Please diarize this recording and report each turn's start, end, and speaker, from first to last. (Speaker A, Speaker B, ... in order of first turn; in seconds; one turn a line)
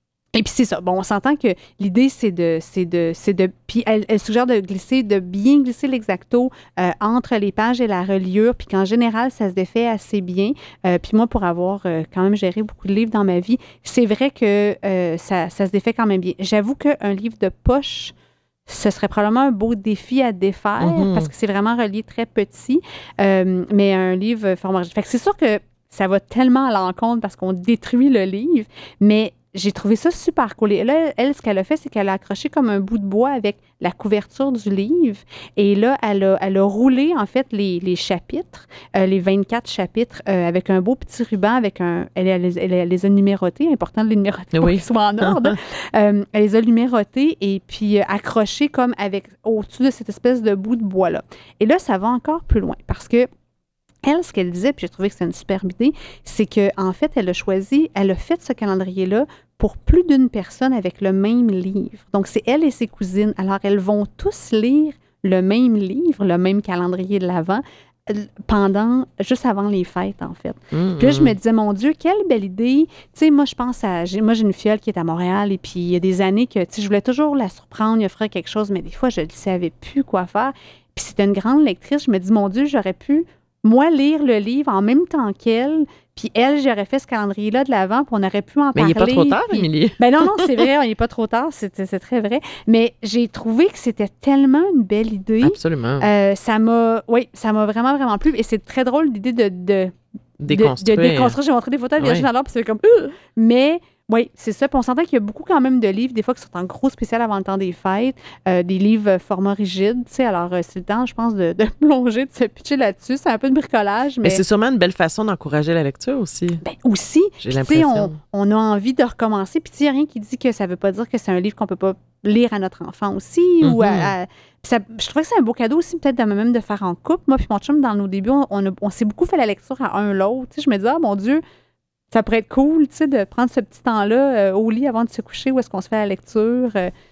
Speaker A: 0.3-18.1
Speaker A: 18.7-53.3
Speaker B: 20.8-21.3
Speaker B: 44.5-45.5
Speaker A: 54.0-99.9
Speaker B: 70.7-71.3
Speaker B: 88.7-90.6
Speaker B: 95.4-96.1
Speaker B: 100.4-101.3
Speaker A: 100.5-114.4
Speaker B: 102.0-102.2
Speaker B: 114.2-116.6
Speaker A: 116.6-131.4
Speaker B: 117.4-118.2
Speaker B: 123.6-124.1
Speaker A: 132.1-136.9